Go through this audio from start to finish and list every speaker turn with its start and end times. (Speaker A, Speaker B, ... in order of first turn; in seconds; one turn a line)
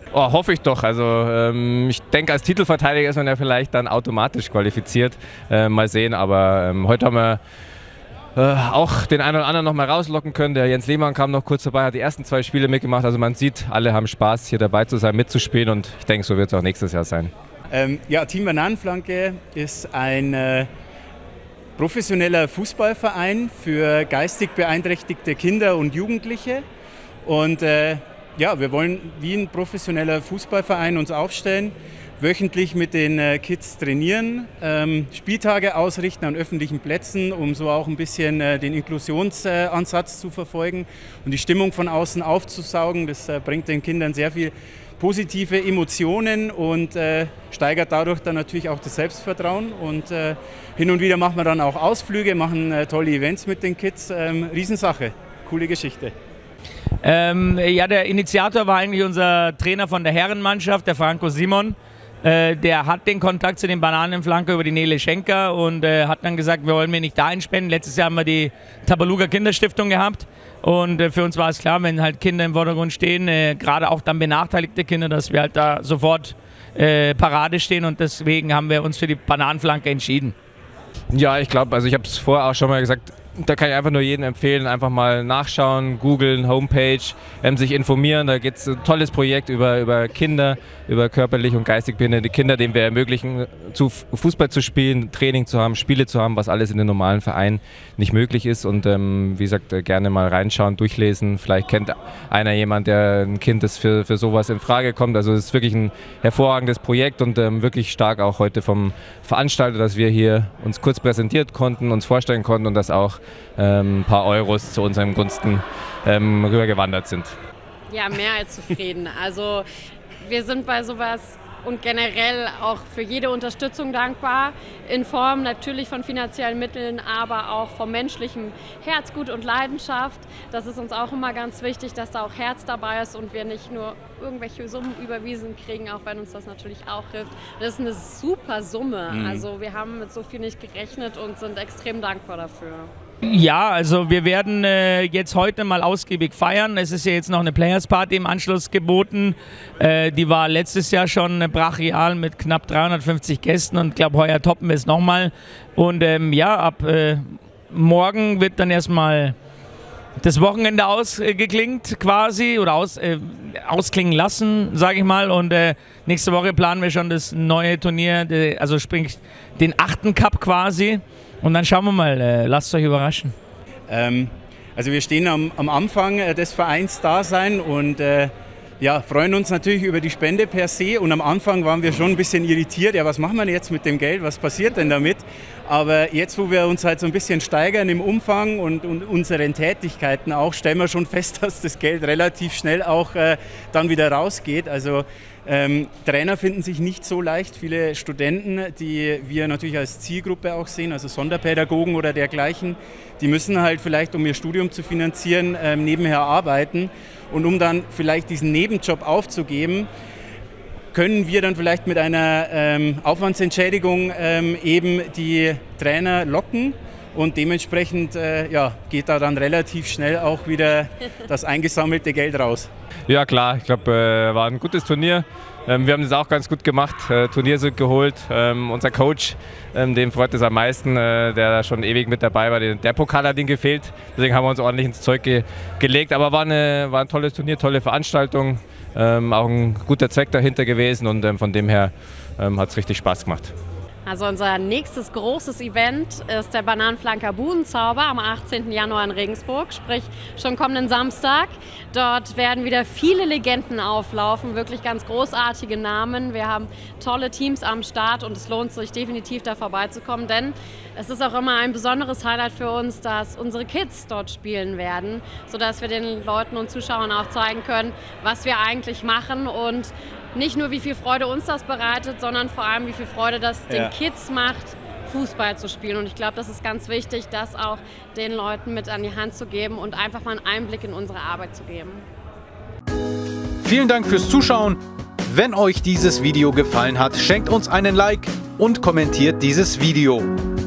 Speaker A: 0.1-7.4
Speaker A: 8.3-17.3
Speaker B: 17.7-20.7
Speaker B: 21.8-26.6
Speaker B: 27.2-56.1
Speaker C: 57.0-80.3
Speaker A: 81.1-117.3
Speaker D: 117.9-119.7
Speaker D: 120.2-142.9
Speaker B: 139.1-139.5
Speaker C: 143.2-159.3
Speaker C: 160.2-173.3
Speaker B: 173.9-209.9
Speaker B: 210.9-222.7
Speaker A: 223.1-243.5
Speaker D: 244.0-282.1
Speaker B: 273.7-273.9
Speaker E: 283.6-290.3